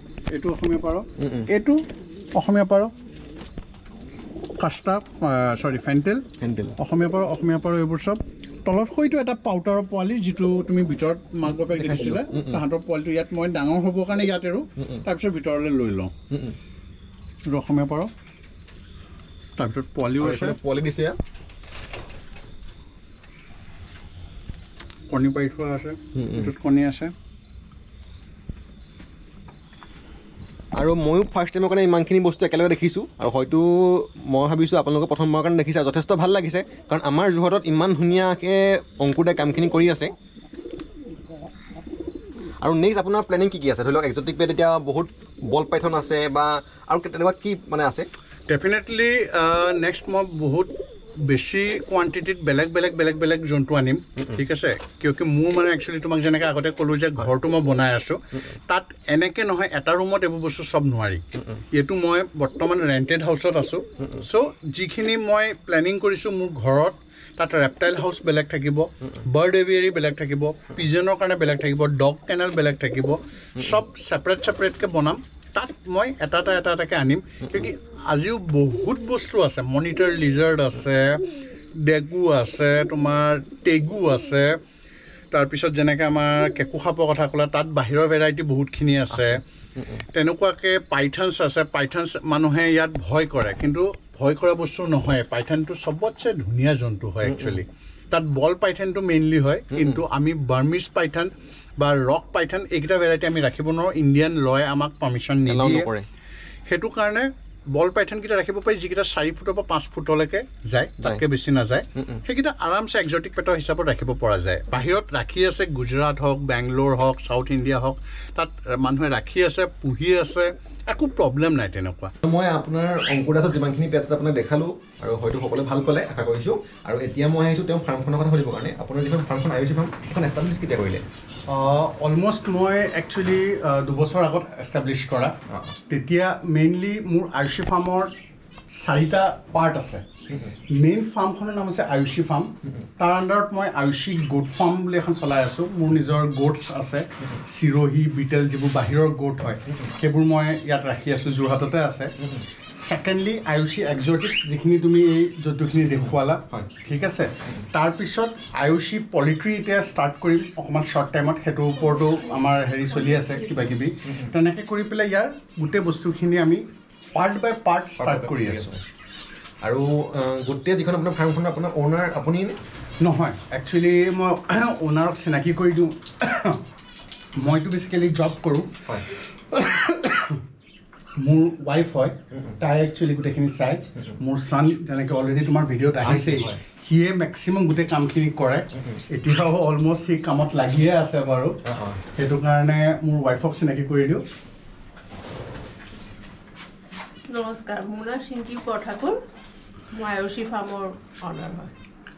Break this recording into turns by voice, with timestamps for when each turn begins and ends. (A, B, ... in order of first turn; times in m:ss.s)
0:00.3-0:02.9 A
0:01.2-0:01.5 B
0:04.6-0:16.1 A
0:06.4-0:06.8 B
0:11.8-0:12.6 B
0:14.8-0:15.0 B
0:16.3-0:16.6 B
0:17.4-0:18.1 A
0:19.6-0:20.6 A
0:20.2-0:21.2 B
0:25.1-0:27.1 A
0:26.1-0:26.5 B
0:30.8-0:40.1 B
0:42.6-0:48.1 B
0:48.5-1:24.6 A
1:25.3-1:29.4 A
1:29.1-1:30.0 B
1:30.1-1:45.9 A
1:37.2-1:37.6 B
1:39.7-1:40.0 B
1:45.5-1:46.1 B
1:46.7-2:02.1 A
1:52.0-1:52.2 B
2:02.2-2:11.0 B
2:11.5-2:15.4 A
2:15.9-2:18.1 A
2:18.7-2:20.0 A
2:20.3-2:20.5 B
2:20.7-2:32.1 A
2:32.8-2:48.7 A
2:48.0-2:48.8 B
2:49.6-2:52.6 B
2:53.0-2:56.6 A
2:57.4-2:58.7 A
2:59.5-3:00.4 A
3:01.2-3:11.6 A
3:06.0-3:06.6 B
3:11.6-3:12.0 B
3:12.1-3:14.2 A
3:17.3-3:19.2 C
3:19.9-3:21.7 C